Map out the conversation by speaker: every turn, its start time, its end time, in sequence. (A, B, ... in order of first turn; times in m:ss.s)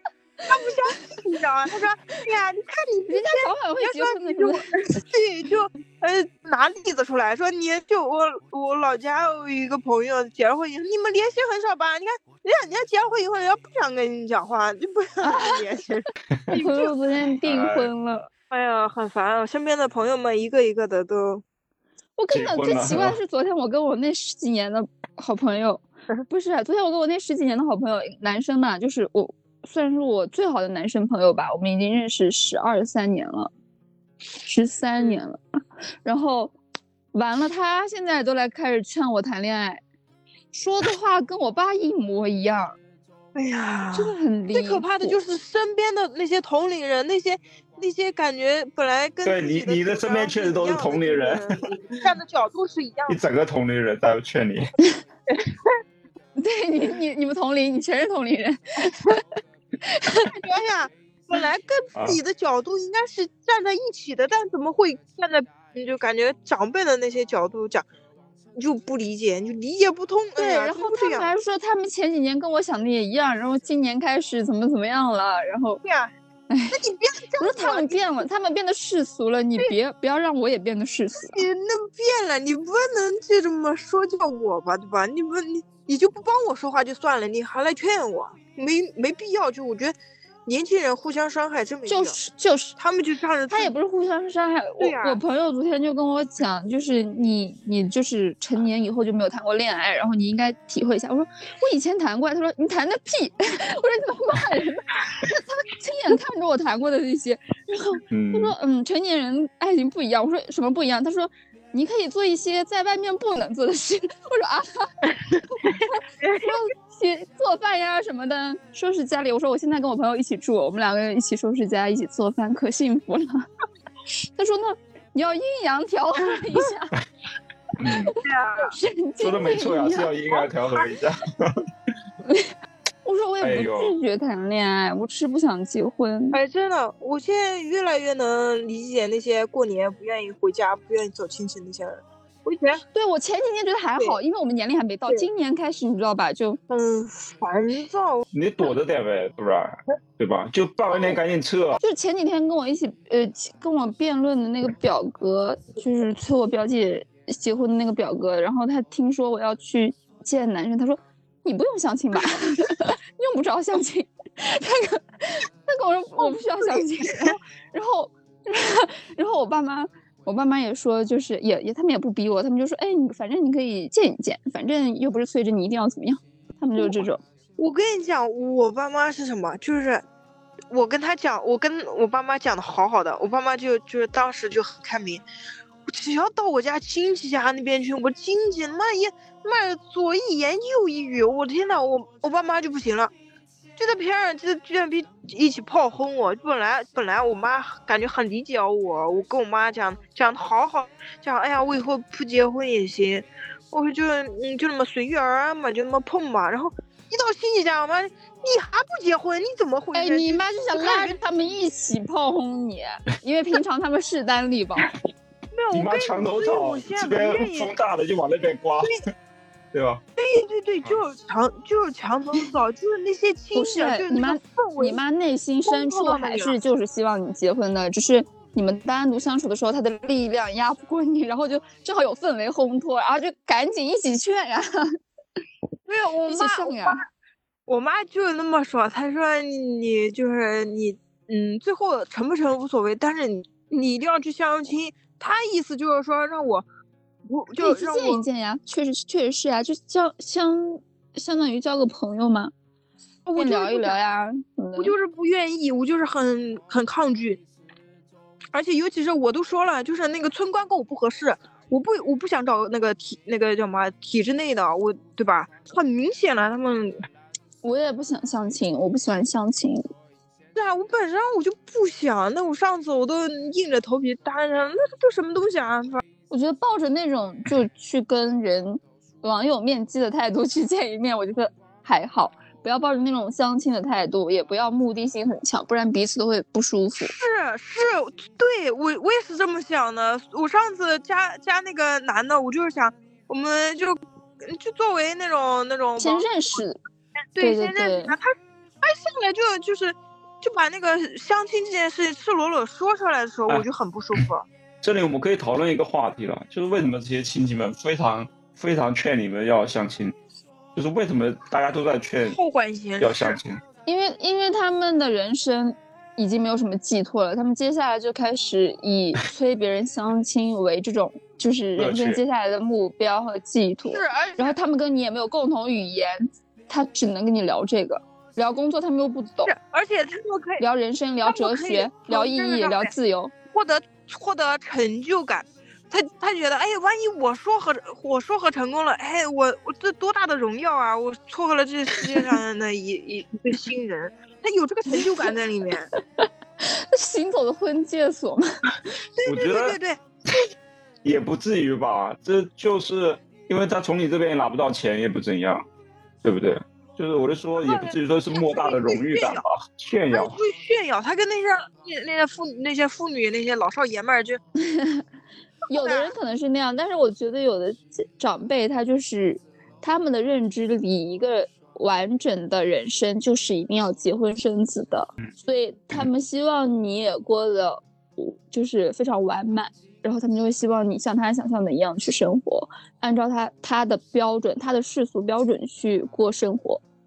0:00.5-0:17.0 A
0:03.1-0:04.7 B
0:15.2-0:15.6 B
0:16.5-0:18.3 B
0:17.4-0:17.9 C
0:18.5-0:21.4 A
0:22.2-0:33.5 B
0:22.3-0:23.2 C
0:34.4-0:35.4 B
0:36.0-0:36.5 B
0:37.1-0:39.8 B
0:40.5-0:42.8 B
0:43.3-0:53.2 A
0:43.9-0:45.1 B
0:49.2-0:51.7 C
0:53.1-0:54.7 C
0:55.3-0:55.7 A
0:56.4-0:59.2 B
0:59.8-1:00.3 B
1:00.3-1:07.8 A
1:08.5-1:11.3 A
1:10.4-1:15.8 B
1:15.8-1:16.1 A
1:16.5-1:16.8 B
1:16.7-1:18.0 A
1:17.4-1:21.4 B
1:21.2-1:32.2 A
1:31.9-1:32.8 B
1:32.8-1:33.7 A
1:33.5-1:54.9 B
1:34.8-1:35.2 A
1:48.1-1:48.5 C
1:55.6-2:03.4 B
1:55.6-1:56.6 A
2:04.4-2:06.9 B
2:07.8-2:08.1 C
2:08.2-2:08.7 A
2:08.6-2:10.1 B
2:09.2-2:11.6 C
2:12.2-2:12.5 B
2:13.0-2:16.4 B
2:13.4-2:13.9 C
2:16.3-2:22.8 A
2:22.9-2:26.6 B
2:26.7-2:28.2 A
2:28.3-2:31.8 C
2:31.8-2:57.2 B
2:46.2-2:47.4 A
2:56.8-2:57.0 A
2:57.6-3:00.0 A
3:00.7-3:05.2 A
3:05.9-3:13.1 A
3:13.8-3:31.2 A
3:29.9-3:34.9 B
3:35.5-3:37.7 A
3:35.7-3:39.1 C
3:39.7-3:40.0 C
3:40.2-3:45.0 A
3:43.5-3:54.9 B
3:45.7-3:46.6 A
3:55.9-3:57.0 A
3:56.3-3:57.0 B
3:57.7-4:06.6 A
4:07.2-4:08.2 A
4:07.6-4:12.5 B
4:13.2-4:14.0 A
4:13.4-4:14.9 B
4:14.8-4:17.4 A
4:18.5-4:27.0 A
4:27.6-4:29.9 B
4:30.5-4:36.0 A
4:36.3-4:47.1 B
4:47.0-4:56.2 A
4:56.0-4:56.8 B
4:57.4-5:04.4 A
4:57.4-4:58.1 B
5:04.8-5:10.1 C
5:10.7-5:12.4 C
5:12.3-5:13.4 A
5:13.0-5:13.6 C
5:13.8-5:29.5 B
5:21.8-5:22.2 C
5:23.8-5:24.5 A
5:29.4-5:30.6 A
5:30.6-5:33.3 B
5:31.2-5:32.9 A
5:33.5-5:45.9 A
5:46.2-5:48.6 B
5:49.2-5:50.4 A
5:49.2-5:49.8 C
5:51.0-5:55.6 C
5:56.2-6:00.4 C
5:57.6-5:59.4 A
6:00.1-6:04.4 A
6:04.6-6:05.0 B
6:05.7-6:26.8 B
6:05.7-6:06.1 A